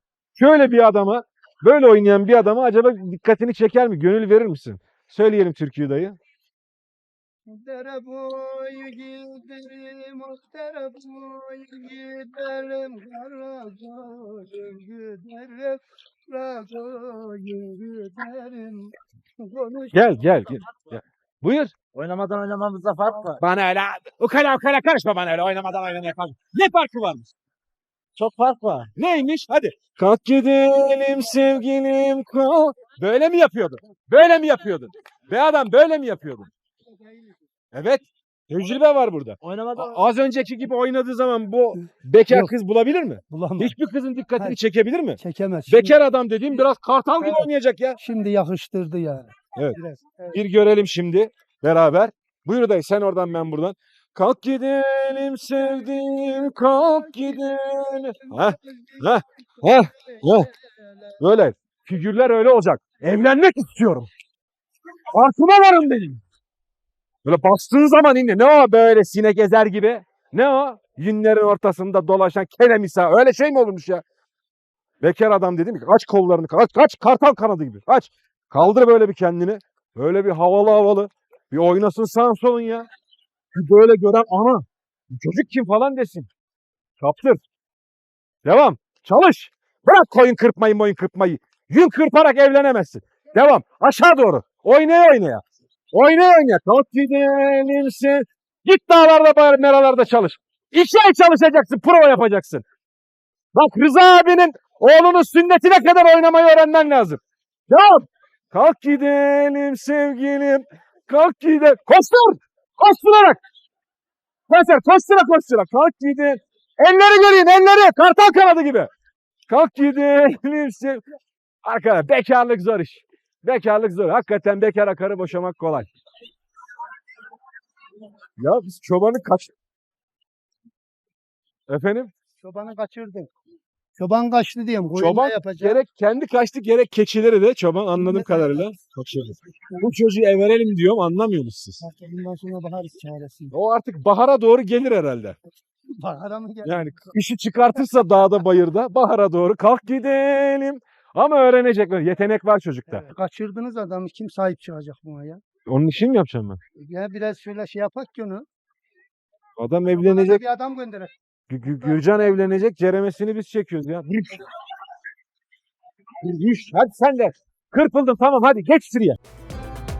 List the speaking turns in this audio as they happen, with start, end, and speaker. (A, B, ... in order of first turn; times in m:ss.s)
0:00.4-0:06.2 A
0:07.5-0:20.0 B
0:19.9-0:21.7 A
0:21.9-0:23.4 C
0:23.4-0:27.3 A
0:28.2-0:28.9 C
0:29.0-0:36.5 A
0:37.0-0:37.3 B
0:37.7-0:48.0 A
0:39.4-0:40.0 C
0:43.3-0:43.7 B
0:45.2-0:45.9 B
0:47.2-0:47.5 B
0:48.0-0:50.4 B
0:50.3-1:00.5 A
0:58.2-0:59.0 B
1:00.1-1:01.1 B
1:01.2-1:04.1 A
1:05.1-1:06.2 A
1:07.2-1:14.0 A
1:15.0-1:22.9 A
1:23.5-1:26.3 A
1:27.0-1:27.4 A
1:28.4-1:42.6 A
1:43.5-1:53.4 A
1:54.5-1:58.9 A
1:59.5-2:01.0 A
2:01.6-2:05.9 A
2:08.4-2:09.5 A
2:11.7-2:12.1 A
2:12.4-2:13.3 B
2:14.0-2:15.8 B
2:15.0-2:21.8 A
2:17.9-2:18.7 B
2:21.8-2:23.5 B
2:23.5-2:25.4 A
2:26.0-2:27.1 B
2:26.6-2:33.1 A
2:32.9-2:35.4 B
2:35.6-2:36.6 A
2:36.8-2:38.4 B
2:39.6-2:40.4 A
2:39.9-2:41.1 B
2:41.5-2:44.4 A
2:41.8-2:42.2 B
2:46.2-2:49.2 A